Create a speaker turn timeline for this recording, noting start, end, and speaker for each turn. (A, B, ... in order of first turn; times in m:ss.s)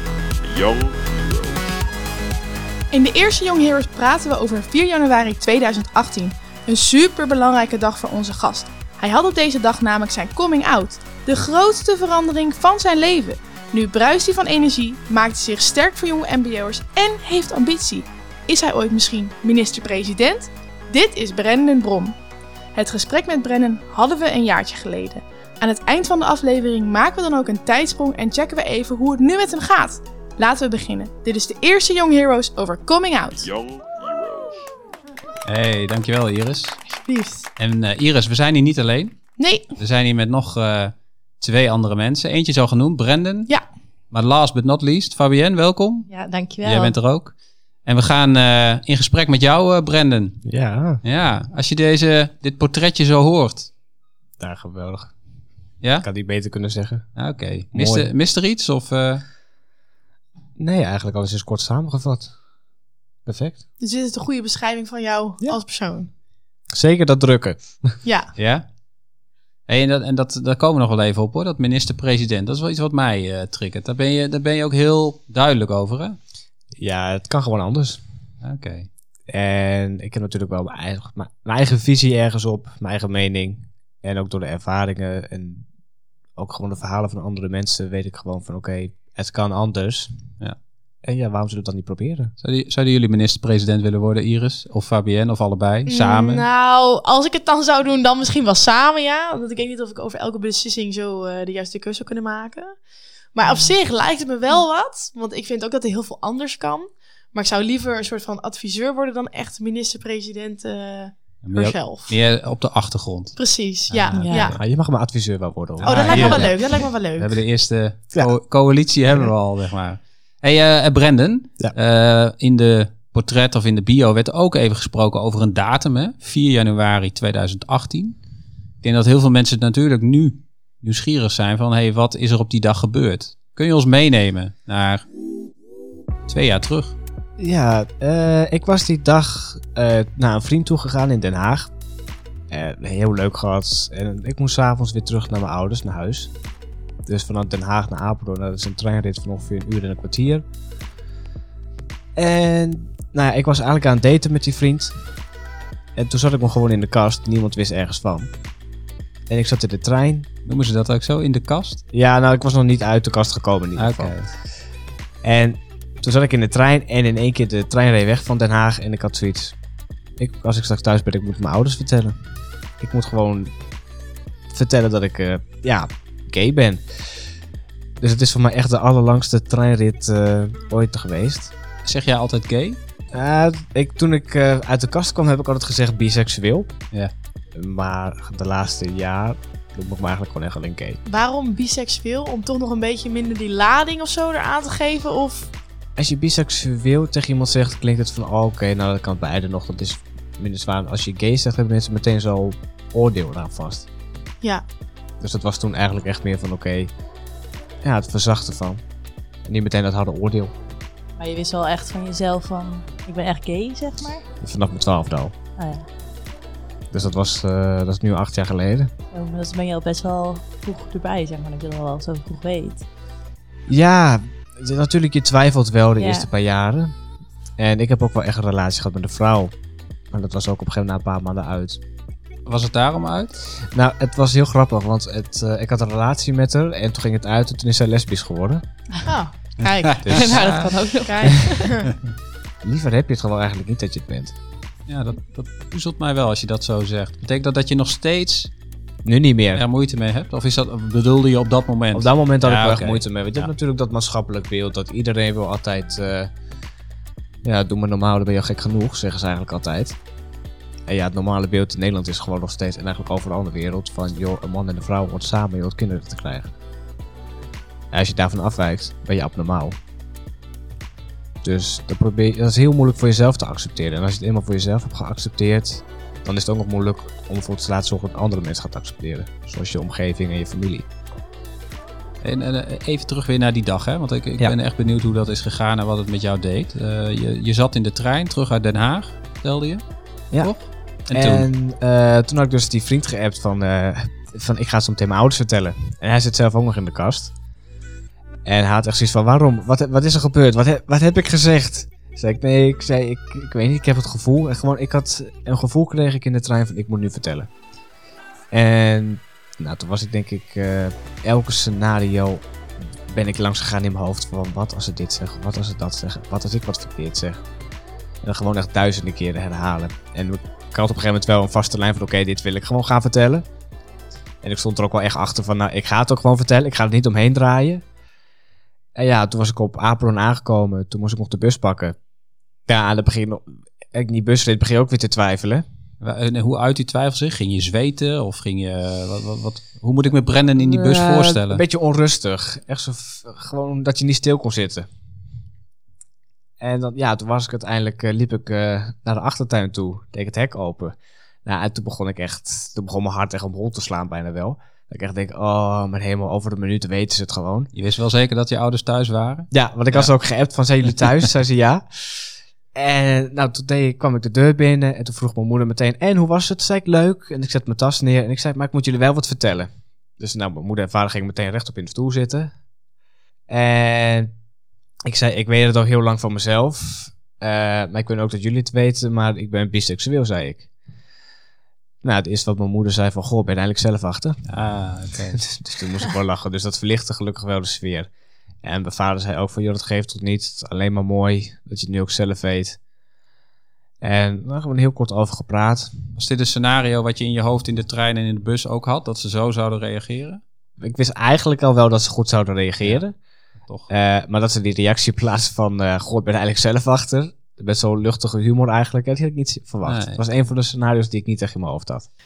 0:00.4-0:01.6 A
0:02.9-0:22.2 B
0:22.7-0:33.5 B
0:33.4-0:34.6 A
0:35.4-0:36.8 C
0:36.8-0:37.5 B
0:37.6-0:43.6 C
0:39.4-0:39.7 B
0:44.1-0:46.1 C
0:46.1-0:47.0 D
0:46.6-0:53.7 C
0:50.4-0:51.0 E
0:54.4-0:55.2 E
0:55.8-0:56.1 C
0:56.0-0:58.1 E
0:57.2-0:59.2 C
1:00.6-1:02.3 E
1:03.2-1:03.6 E
1:03.8-1:06.1 B
1:06.7-1:08.0 E
1:08.0-1:08.3 B
1:08.4-1:08.6 C
1:09.7-1:16.2 C
1:16.7-1:18.0 E
1:18.4-1:18.9 C
1:19.3-1:25.7 E
1:26.3-1:30.3 E
1:31.0-1:32.3 E
1:32.4-1:36.5 C
1:35.8-1:52.2 B
1:43.4-1:43.7 D
1:51.4-1:54.6 C
1:53.4-1:54.6 B
1:54.1-1:54.5 D
1:54.5-1:56.7 E
1:55.8-2:08.2 C
1:55.8-1:57.4 B
2:08.8-2:15.0 C
2:16.3-2:17.0 C
2:17.4-2:21.7 E
2:22.5-2:26.3 E
2:27.0-2:30.4 E
2:32.2-2:35.0 E
2:36.0-2:38.3 E
2:39.3-2:40.3 E
2:40.4-2:41.8 C
2:41.9-2:44.4 E
2:43.8-2:44.3 C
2:45.2-2:49.6 E
2:50.2-2:52.2 E
2:52.8-2:53.5 E
2:54.5-2:57.3 E
2:58.0-3:01.5 E
3:01.8-3:02.8 C
3:03.1-3:06.8 E
3:07.5-3:11.0 E
3:11.0-3:15.5 B
3:16.0-3:23.9 E
3:25.2-3:26.9 E
3:27.8-3:28.8 E
3:29.4-3:30.5 E
3:31.2-3:34.2 D
3:34.4-3:35.3 E
3:35.6-3:35.8 D
3:36.9-3:38.9 E
3:39.1-3:42.8 D
3:43.7-3:47.0 E
3:46.0-3:46.3 D
3:47.6-3:49.5 E
3:50.1-3:51.8 E
3:52.4-3:53.3 C
3:53.5-3:58.6 E
3:59.0-4:01.9 B
4:00.0-4:00.8 C
4:00.1-4:01.7 D
4:02.6-4:04.4 E
4:04.9-4:08.5 C
4:09.0-4:09.6 E
4:09.5-4:13.5 C
4:11.9-4:16.3 E
4:17.4-4:20.0 E
4:20.9-4:26.5 E
4:27.9-4:29.8 E
4:31.4-4:40.9 E
4:42.2-4:51.5 C
4:50.3-4:57.3 E
4:58.4-5:07.5 E
5:08.5-5:12.5 E
5:13.0-5:17.4 E
5:18.2-5:23.4 E
5:24.4-5:27.8 E
5:28.9-5:32.0 E
5:32.6-5:35.6 E
5:36.0-5:41.6 C
5:40.6-5:44.9 E
5:46.6-5:57.7 E
5:57.7-6:00.1 C
5:59.5-6:12.6 E
6:13.5-6:14.3 E
6:15.0-6:20.7 E
6:22.0-6:24.6 E
6:24.5-6:25.5 C
6:25.4-6:28.1 E
6:28.6-6:32.8 E
6:34.0-6:36.1 E
6:36.1-6:40.4 C
6:40.8-6:43.2 E
6:42.8-6:43.0 C
6:43.6-6:43.9 C
6:43.9-6:52.1 E
6:49.8-6:50.2 C